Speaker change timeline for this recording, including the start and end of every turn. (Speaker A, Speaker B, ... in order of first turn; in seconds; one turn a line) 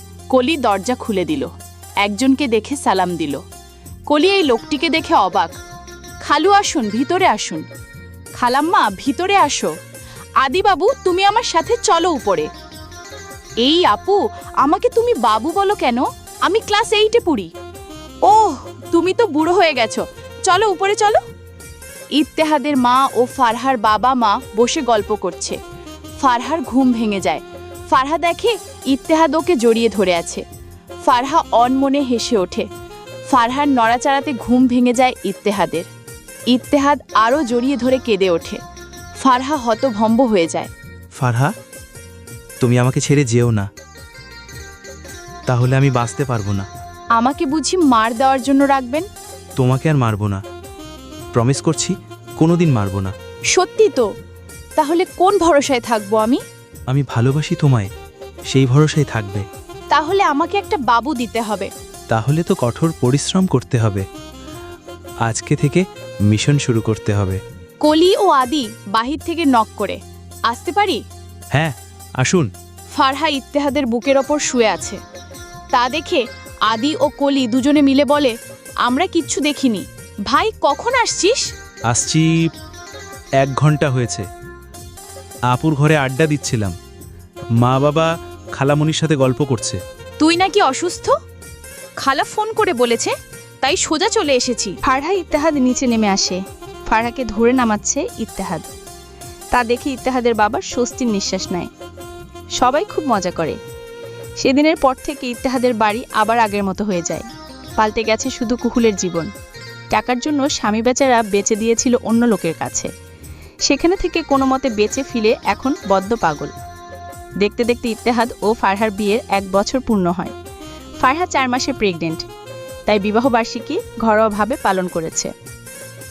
Speaker A: 0.3-1.5
Speaker A: 2.0-3.4
Speaker A: 4.1-5.5
Speaker A: 6.2-7.7
Speaker A: 8.4-9.7
Speaker A: 10.4-12.5
Speaker A: 13.6-17.5
Speaker A: 18.2-21.2
Speaker A: 22.2-25.6
Speaker A: 26.2-30.4
Speaker A: 31.0-32.7
Speaker A: 33.3-35.9
Speaker A: 36.5-38.6
Speaker A: 39.2-40.7
Speaker B: 41.2-41.5
Speaker B: 42.6-43.7
Speaker B: 45.5-46.7
Speaker A: 47.1-49.1
Speaker B: 49.6-50.4
Speaker B: 51.3-53.1
Speaker A: 53.5-54.1
Speaker A: 54.8-56.4
Speaker B: 56.9-57.9
Speaker B: 58.5-59.5
Speaker A: 59.9-61.7
Speaker B: 62.1-64.1
Speaker B: 65.2-67.4
Speaker A: 67.8-71.0
Speaker B: 71.5-72.5
Speaker A: 72.9-75.0
Speaker A: 75.7-78.3
Speaker A: 78.8-81.5
Speaker B: 81.9-82.5
Speaker B: 83.4-84.3
Speaker B: 85.5-86.8
Speaker B: 87.6-89.8
Speaker A: 90.2-91.2
Speaker A: 92.0-94.8
Speaker C: 94.8-98.7
Speaker C: 99.5-101.7
Speaker C: 102.6-103.6
Speaker C: 104.4-109.3
Speaker C: 109.9-112.9
Speaker C: 113.7-116.5
Speaker C: 117.4-120.3
Speaker C: 121.0-122.2
Speaker C: 122.9-125.3